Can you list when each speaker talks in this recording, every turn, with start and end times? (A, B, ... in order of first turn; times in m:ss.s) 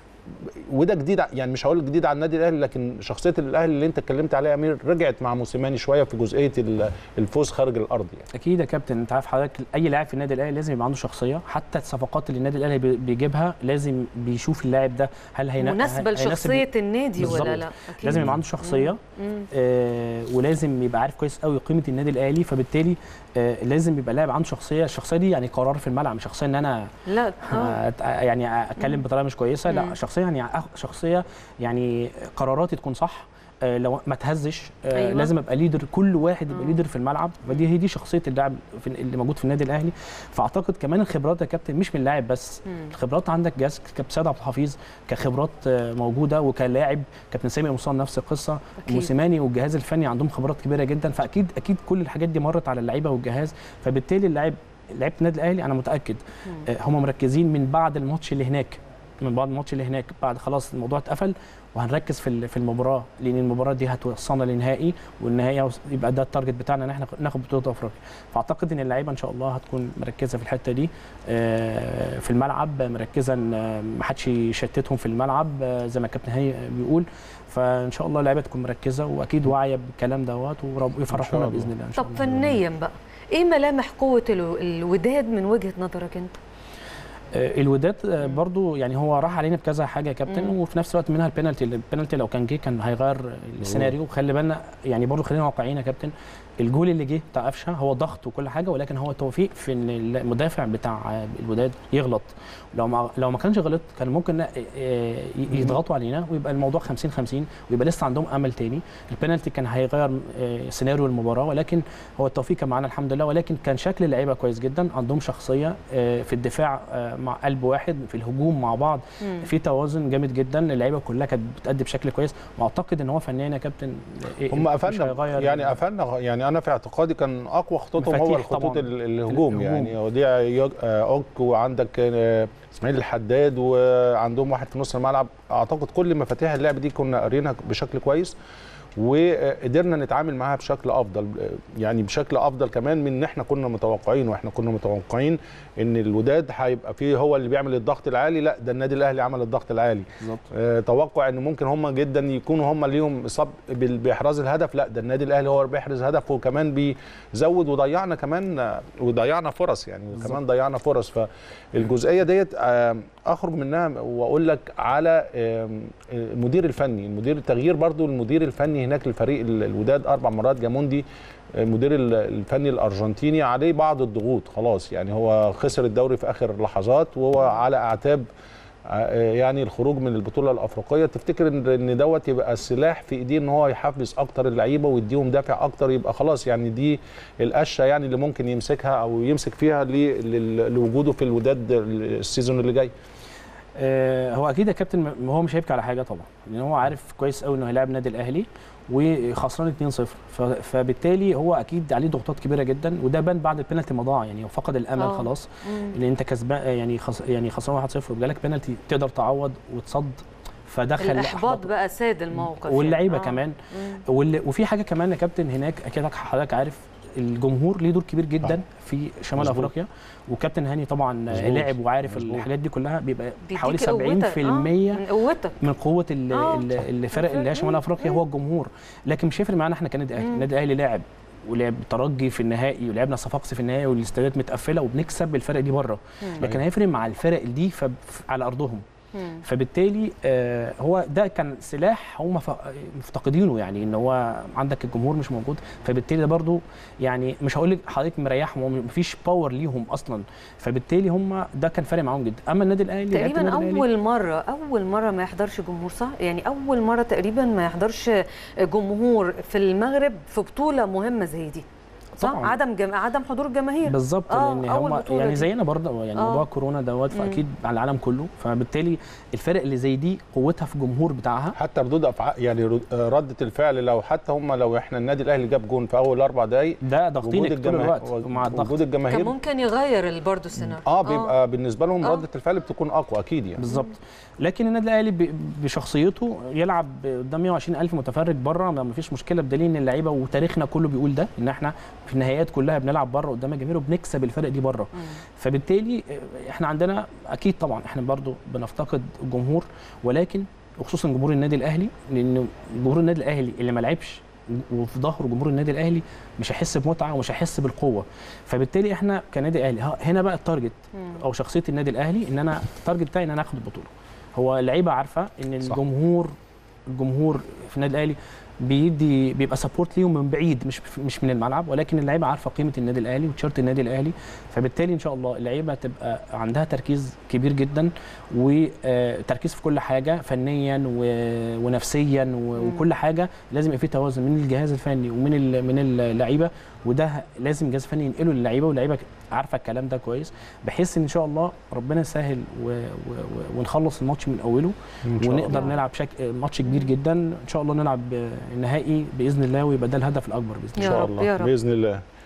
0:00.4-0:08.2 A
0:08.3-0:19.0 B
0:15.6-0:19.5 C
0:17.2-0:17.6 A
0:18.1-0:18.4 A
0:19.5-0:26.9 B
0:27.1-0:27.8 C
0:27.4-1:22.4 B
0:29.7-0:29.9 C
0:34.9-0:35.3 C
0:36.5-0:36.8 C
0:48.8-0:49.1 C
1:21.1-1:21.7 A
1:22.0-1:26.3 C
1:27.3-2:05.8 B
1:30.3-1:30.5 C
1:33.6-1:33.9 A
1:45.5-1:45.8 A
1:59.2-1:59.5 C
2:04.5-2:18.3 A
2:08.0-2:09.9 B
2:19.0-2:58.2 A
2:30.2-2:30.4 B
2:58.8-3:12.9 A
3:13.8-3:31.7 B
3:25.0-3:25.9 C
3:31.0-3:34.0 C
3:32.4-3:45.0 B
3:39.4-3:39.7 A
3:41.3-3:42.5 A
3:43.5-3:45.6 C
3:45.6-3:58.8 B
3:46.3-3:48.2 C
3:50.2-3:50.4 C
3:59.1-3:59.4 C
3:59.4-4:13.8 B
4:13.1-4:21.6 C
4:22.2-4:22.6 B
4:22.2-4:25.5 C
4:23.9-4:31.6 B
4:26.2-4:26.4 C
4:27.1-4:27.4 C
4:31.6-4:39.3 A
4:36.8-4:38.7 B
4:39.1-4:41.3 C
4:40.6-4:43.6 A
4:43.6-5:16.3 B
5:11.0-5:11.2 C
5:16.9-5:51.2 B
5:32.6-5:32.8 C
5:45.0-5:45.8 A
5:50.8-5:51.5 C
5:50.8-5:52.0 A